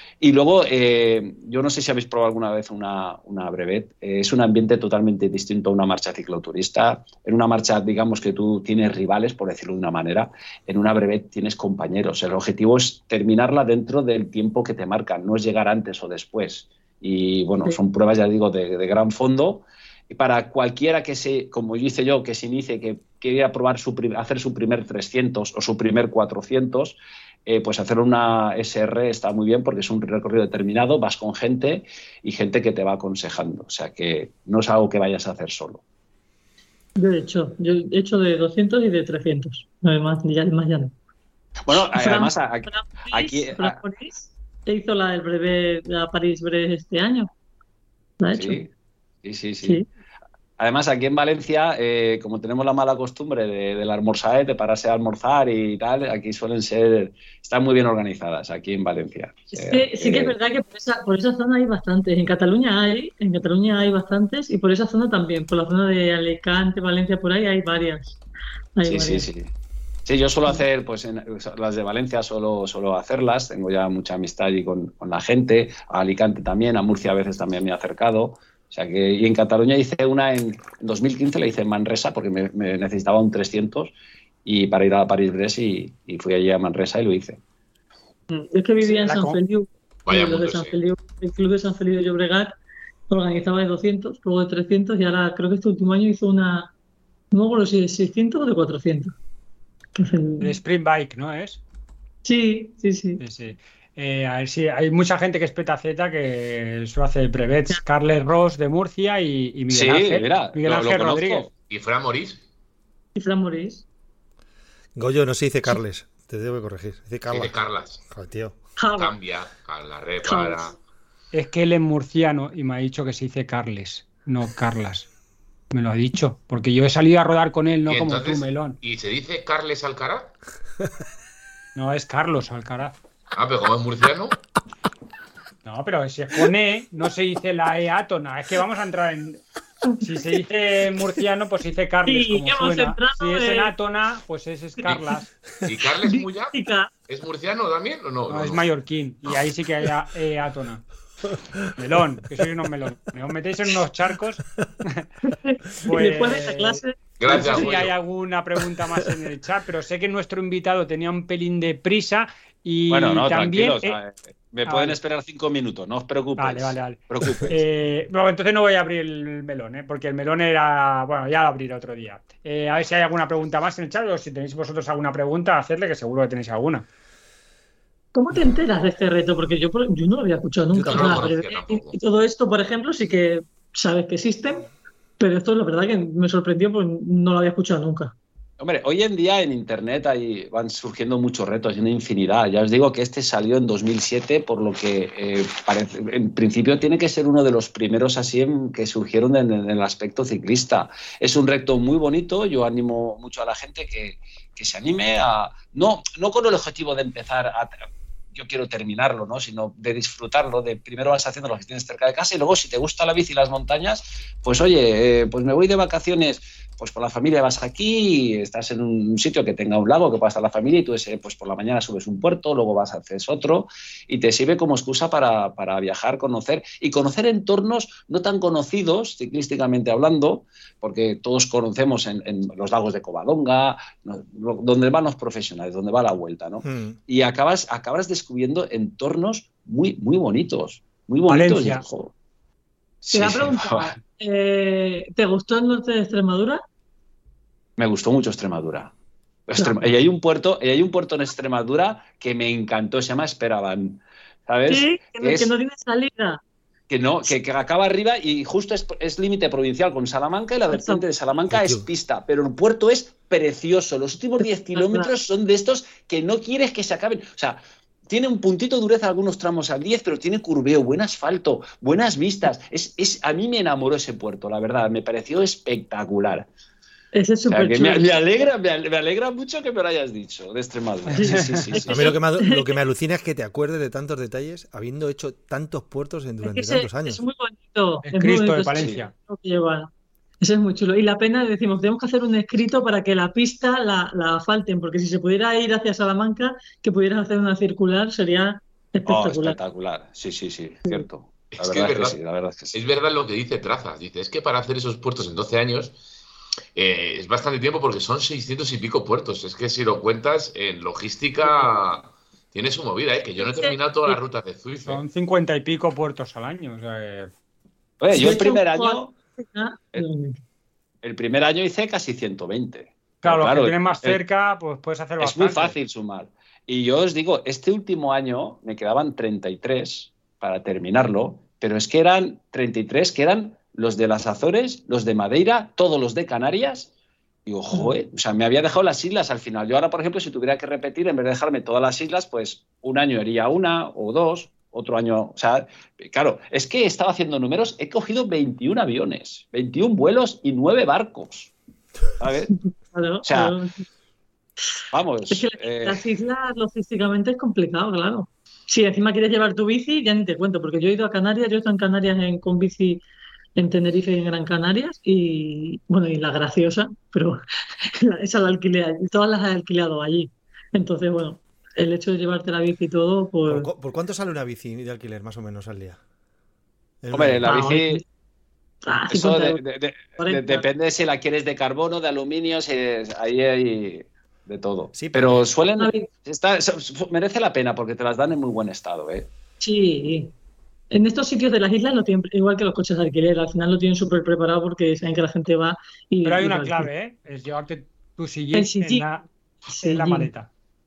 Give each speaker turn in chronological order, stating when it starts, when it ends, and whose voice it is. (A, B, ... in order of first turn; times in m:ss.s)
0:00.2-0:35.8 A
0:37.0-0:40.9 B
0:41.7-0:43.8 A
0:41.7-0:47.3 B
0:48.2-0:48.6 B
0:48.3-0:48.7 A
0:49.2-0:49.8 A
0:50.6-1:00.4 A
0:59.5-1:08.2 B
1:08.8-1:09.3 B
1:08.8-1:09.5 A
1:10.0-1:23.9 A
1:24.4-1:27.4 A
1:28.3-1:32.6 B
1:28.8-1:29.4 C
1:30.1-1:30.8 D
1:33.1-1:36.7 B
1:37.3-1:39.1 B
1:40.0-1:40.5 B
1:40.4-1:41.6 C
1:42.2-1:43.2 B
1:43.2-1:51.5 C
1:49.7-1:51.5 A
1:51.7-1:52.4 D
1:53.2-1:53.8 B
1:55.0-1:58.6 E
1:57.3-1:58.0 D
1:58.8-1:59.1 B
1:59.0-2:00.8 D
2:00.2-2:00.7 B
2:01.3-2:05.1 C
2:05.7-2:08.8 C
2:07.9-2:10.4 D
2:11.8-2:13.0 C
2:13.3-2:14.4 D
2:15.6-2:19.4 C
2:20.0-2:25.3 C
2:22.1-2:23.7 B
2:25.6-2:28.7 D
2:26.0-2:26.9 B
2:28.3-2:30.9 C
2:31.5-2:31.7 E
2:31.8-2:35.1 C
2:35.2-2:37.8 B
2:35.8-2:44.0 C
2:37.2-2:38.0 D
2:42.9-2:47.6 A
2:44.6-2:45.0 C
2:46.4-2:56.9 C
2:58.1-3:08.1 B
3:00.7-3:01.3 E
3:00.9-3:02.0 D
3:08.6-3:27.7 A
3:28.3-4:02.1 A
3:56.6-3:57.0 E
4:01.3-4:01.8 C
4:03.0-4:04.0 A
4:03.1-4:06.6 B
4:07.8-4:08.9 A
4:09.5-4:15.5 A
4:14.7-4:16.4 B
4:16.9-4:36.5 A
4:20.7-4:21.0 B
4:21.5-4:21.9 E
4:24.7-4:25.1 B
4:37.1-4:38.1 B
4:37.5-4:42.0 A
4:41.1-4:42.7 B
4:41.2-4:41.7 C
4:41.3-4:47.2 E
4:46.4-4:59.6 B
4:48.0-4:49.1 C
4:48.8-4:49.0 A
4:59.1-5:02.8 A
5:01.5-5:02.2 D
5:02.7-5:06.0 D
5:06.8-5:15.0 D
5:13.4-5:13.8 B
5:14.8-5:17.3 C
5:18.0-5:19.2 A
5:18.1-5:20.4 B
5:21.0-5:24.2 A
5:23.2-5:25.8 C
5:25.2-5:36.9 A
5:37.5-5:51.5 A
5:52.2-5:52.5 A
5:52.6-5:53.9 B
5:53.2-5:53.6 A
5:54.9-5:56.0 A
5:55.3-6:03.0 B
6:03.6-6:13.7 B
6:13.5-6:16.0 E
6:17.0-6:17.5 E
6:17.1-6:18.0 A
6:17.5-6:18.0 B
6:18.9-6:19.6 B
6:19.1-6:29.3 A
6:20.2-6:20.6 B
6:24.9-6:25.5 E
6:25.8-6:26.1 B
6:29.6-6:30.3 B
6:30.9-6:36.9 B
6:36.2-6:40.5 C
6:38.5-6:39.1 B
6:39.7-6:40.3 B